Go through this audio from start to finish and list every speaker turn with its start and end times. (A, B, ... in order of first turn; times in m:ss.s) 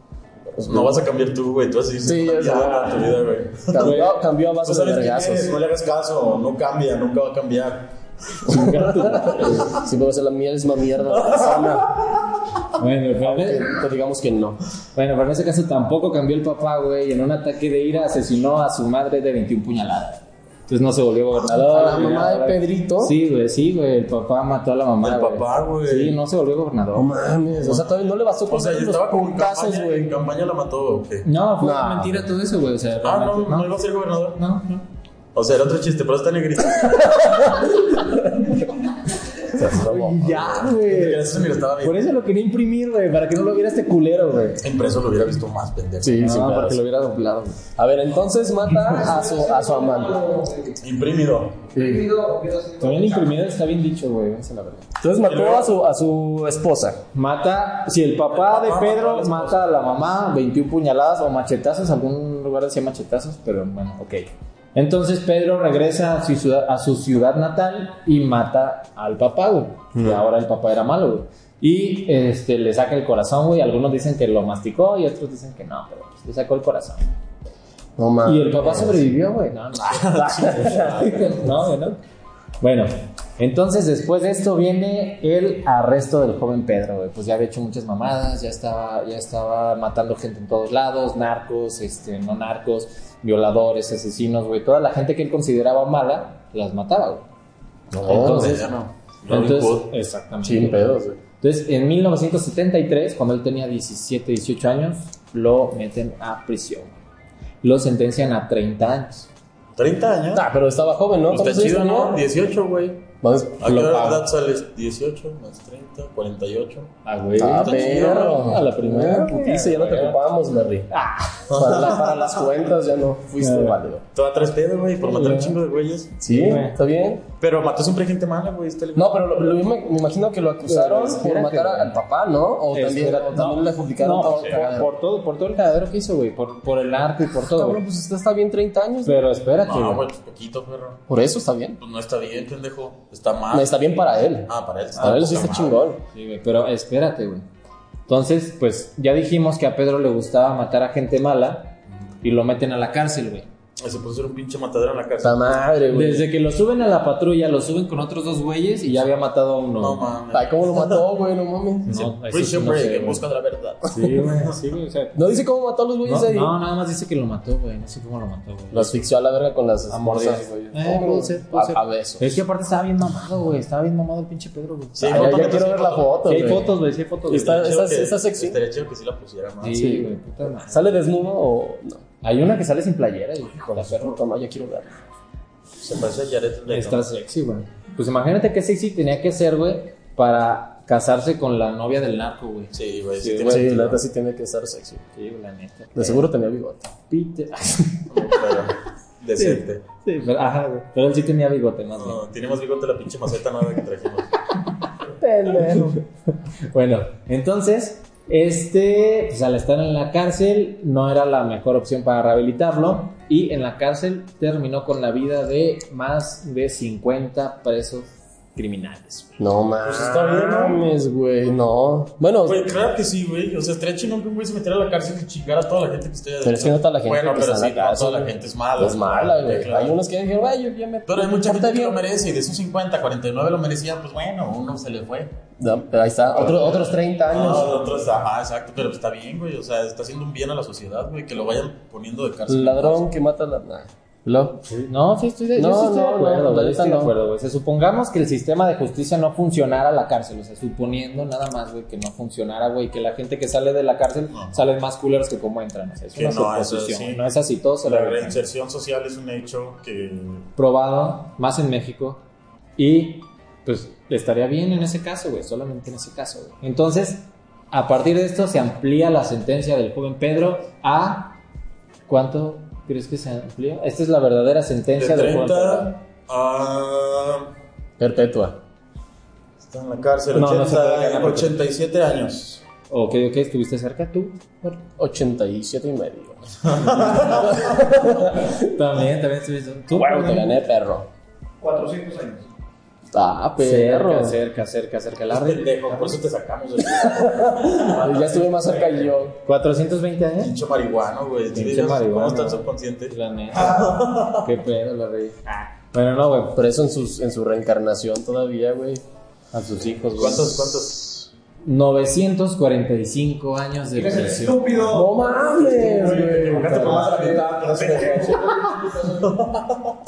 0:00.6-0:01.0 A
0:00.6-0:04.0 B
0:02.0-0:03.1 A
0:03.7-0:05.6 A
0:03.8-0:04.1 C
0:04.6-0:08.6 B
0:08.5-0:11.9 A
0:08.5-0:09.4 C
0:11.3-0:11.6 B
0:12.8-0:13.8 C
0:13.2-0:14.6 A
0:15.0-0:27.1 C
0:21.4-0:23.2 A
0:25.0-0:26.2 B
0:26.9-0:30.2 A
0:27.6-0:31.3 B
0:31.2-0:33.8 C
0:31.6-0:32.3 A
0:33.0-0:34.4 B
0:34.4-0:34.8 C
0:35.4-0:37.5 B
0:39.5-0:40.6 A
0:39.5-0:41.3 C
0:40.4-0:42.0 B
0:41.8-0:44.6 C
0:44.6-0:46.2 B
0:46.0-0:46.8 A
0:46.2-0:47.6 C
0:47.7-0:50.2 A
0:48.9-0:50.8 D
0:50.8-0:51.7 B
0:51.7-0:52.1 A
0:51.8-0:53.4 D
0:52.8-0:54.9 C
0:55.0-0:57.0 A
0:55.2-0:55.7 B
0:57.1-1:17.0 C
0:58.3-1:00.2 B
1:09.9-1:10.2 A
1:18.0-1:19.1 A
1:18.2-1:22.0 C
1:19.8-1:21.5 B
1:20.6-1:20.9 A
1:22.6-1:37.2 C
1:37.9-1:38.5 A
1:38.0-1:38.7 C
1:38.1-1:39.9 B
1:39.3-1:46.9 C
1:40.4-1:41.2 A
1:47.6-1:49.3 C
1:49.8-1:50.5 B
1:50.3-1:52.2 A
1:51.3-1:56.9 B
1:53.2-1:54.1 A
1:53.7-1:54.3 C
1:57.0-2:00.2 C
1:57.4-2:00.9 A
1:57.5-1:58.6 B
2:00.9-2:01.8 C
2:01.5-2:02.6 B
2:01.5-2:04.0 A
2:03.4-2:03.8 C
2:04.1-2:06.6 B
2:05.0-2:05.6 C
2:06.2-2:07.2 A
2:06.4-2:06.8 C
2:07.4-2:09.3 B
2:09.0-2:14.9 A
2:10.6-2:12.0 C
2:12.7-2:17.8 C
2:14.2-2:14.6 B
2:17.5-2:19.2 A
2:19.0-2:20.0 C
2:19.6-2:21.0 B
2:21.1-2:21.8 A
2:21.8-2:23.8 B
2:23.5-2:26.0 A
2:24.5-2:25.8 B
2:26.1-2:27.4 C
2:28.1-2:33.5 C
2:33.8-2:35.7 B
2:35.2-2:36.3 A
2:35.9-2:40.0 C
2:39.8-2:41.0 B
2:40.3-2:41.9 A
2:41.9-2:43.2 C
2:41.9-2:44.5 B
2:43.9-2:45.4 C
2:45.2-2:46.5 A
2:46.0-2:49.0 C
2:48.7-2:52.4 A
2:49.9-2:55.6 C
2:55.0-2:56.3 B
2:55.1-2:56.7 A
2:56.2-2:57.7 C
2:57.3-2:58.6 A
2:57.3-2:59.9 B
2:59.6-3:01.0 C
2:59.8-3:00.1 A
3:00.7-3:02.0 A
3:02.2-3:04.2 C
3:03.7-3:05.0 A
3:05.8-3:07.1 B
3:06.7-3:13.8 C
3:12.7-3:14.0 B
3:13.4-3:15.0 A
3:15.2-3:16.2 C
3:16.0-3:16.9 A
3:17.1-3:18.1 C
3:18.1-3:19.8 B
3:19.4-3:22.2 C
3:22.0-3:24.3 B
3:25.2-3:26.0 A
3:26.7-3:39.3 C
3:39.4-3:42.7 A
3:39.8-3:40.8 B
3:42.5-3:50.0 B
3:46.4-3:52.0 A
3:51.1-3:55.3 B
3:55.6-3:57.8 A
3:56.3-4:03.1 B
4:02.5-4:04.6 A
4:04.7-4:18.4 C
4:05.6-4:07.1 A
4:14.3-4:14.6 B
4:16.2-4:17.2 B
4:17.8-4:20.5 B
4:20.6-4:22.2 C
4:22.8-4:31.4 C
4:32.1-4:36.0 C
4:35.0-4:37.5 B
4:38.0-4:38.6 A
4:39.6-4:42.6 B
4:40.3-4:41.6 C
4:42.9-4:44.5 C
4:44.6-4:48.5 A
4:46.6-4:47.8 B
4:48.4-4:50.5 C
4:49.9-4:51.1 A
4:51.6-4:52.5 D
4:53.1-4:54.4 A
4:53.6-4:56.1 C
4:55.3-4:59.1 B
4:57.3-4:59.4 A
4:59.4-5:00.5 C
5:00.4-5:04.5 B
5:01.5-5:06.6 C
5:06.5-5:09.0 A
5:09.5-5:10.8 C
5:10.2-5:11.3 B
5:11.6-5:14.9 C
5:14.0-5:15.4 D
5:14.9-5:17.2 A
5:15.4-5:20.0 B
5:16.7-5:19.3 D